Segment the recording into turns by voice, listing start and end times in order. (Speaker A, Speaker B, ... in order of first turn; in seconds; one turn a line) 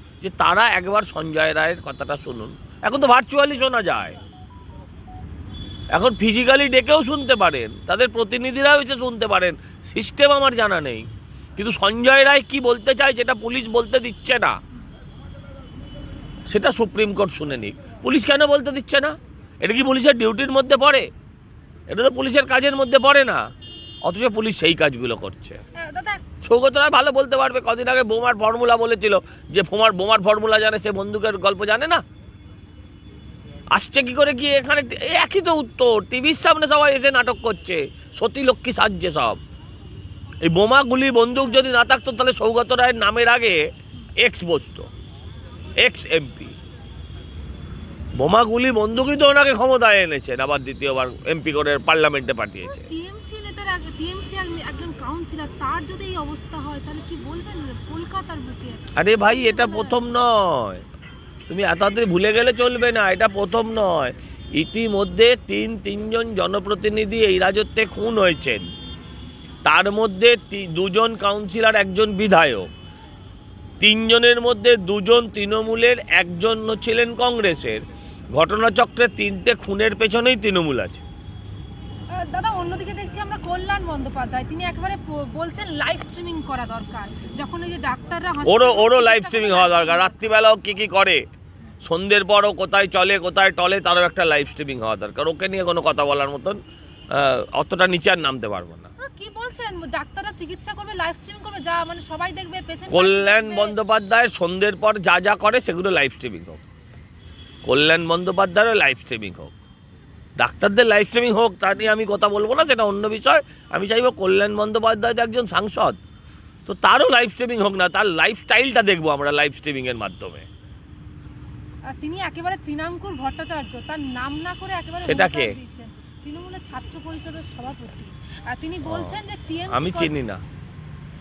Speaker A: 0.2-4.2
Speaker A: 5.9-14.6
Speaker A: 16.5-21.1
Speaker A: 21.9-23.4
Speaker A: 24.1-25.6
Speaker B: 25.8-26.2
Speaker A: 26.4-32.0
Speaker A: 33.7-39.4
Speaker A: 40.4-43.7
Speaker A: 44.2-44.9
Speaker A: 45.8-46.5
Speaker A: 48.1-52.9
Speaker B: 52.7-60.0
Speaker A: 59.0-60.8
Speaker A: 61.5-68.7
Speaker A: 69.6-72.7
Speaker A: 73.8-77.8
Speaker A: 78.3-81.0
Speaker B: 82.1-90.3
Speaker A: 88.4-91.2
Speaker A: 91.8-96.6
Speaker A: 97.1-98.9
Speaker B: 99.0-103.8
Speaker A: 102.9-106.6
Speaker A: 107.6-109.5
Speaker A: 110.4-116.0
Speaker A: 116.7-120.5
Speaker B: 121.9-130.1
Speaker A: 125.0-125.5
Speaker A: 128.9-129.2
Speaker A: 129.7-130.4